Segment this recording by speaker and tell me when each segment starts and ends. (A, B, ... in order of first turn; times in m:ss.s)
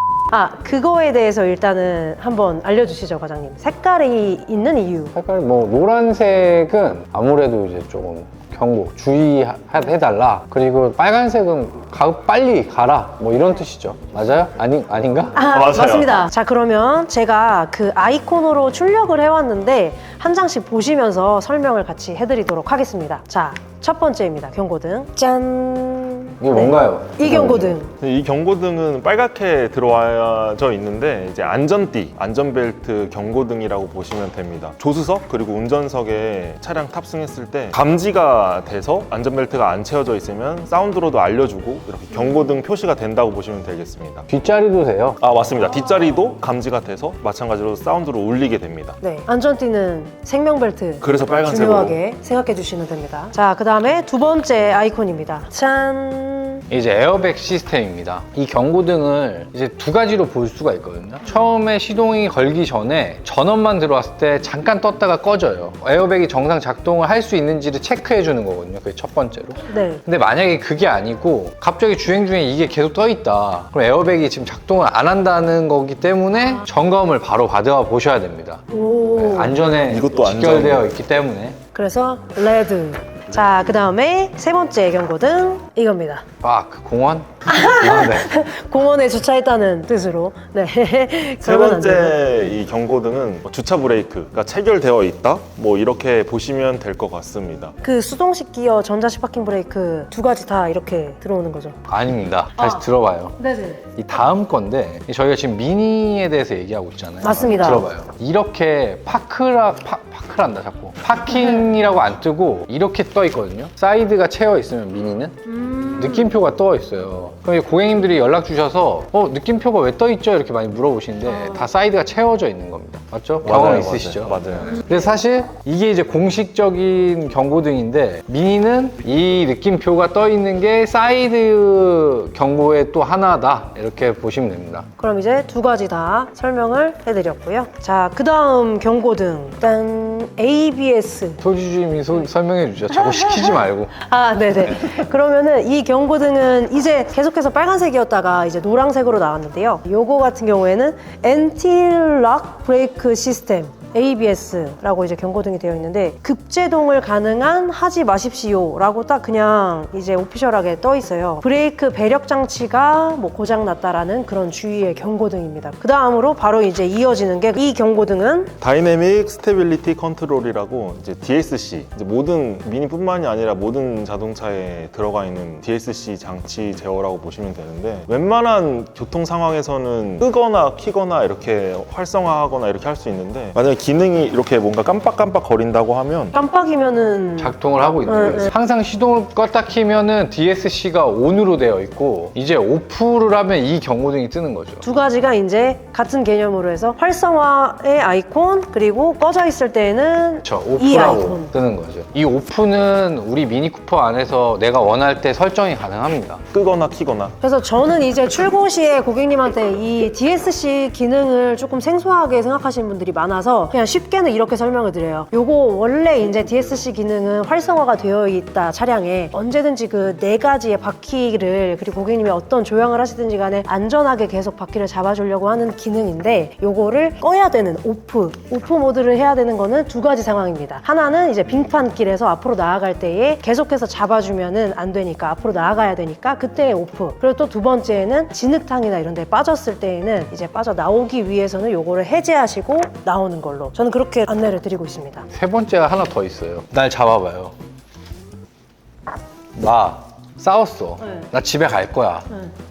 0:00.3-0:05.1 A
0:05.2-0:15.4 B
0:15.3-0:27.9 A
0:15.5-0:16.2 C
0:26.4-0:27.8 B
0:28.0-0:44.3 C
0:44.3-0:45.2 B
0:45.2-0:49.0 C
0:49.0-0:56.6 A
0:51.0-0:52.0 C
0:56.7-1:21.6 B
1:09.7-1:10.0 A
1:18.7-1:19.6 A
1:19.9-1:20.9 C
1:21.7-1:26.2 A
1:26.4-1:28.3 B
1:27.5-1:32.2 A
1:31.4-1:37.7 C
1:37.8-1:41.8 A
1:41.9-1:43.4 B
1:42.6-1:42.8 A
1:43.4-1:43.8 A
1:44.0-1:55.4 B
1:47.2-1:47.9 A
1:55.5-1:56.4 A
1:56.0-2:14.9 B
2:01.3-2:01.7 A
2:03.4-2:04.8 C
2:15.0-2:21.4 A
2:21.4-2:23.9 B
2:22.9-2:48.5 A
2:48.6-3:06.4 C
3:06.3-3:08.5 A
3:07.4-3:14.8 B
3:14.8-3:21.5 A
3:20.4-3:26.4 B
3:26.5-3:27.4 C
3:27.4-4:05.3 A
4:05.3-4:07.5 B
4:09.6-4:12.3 B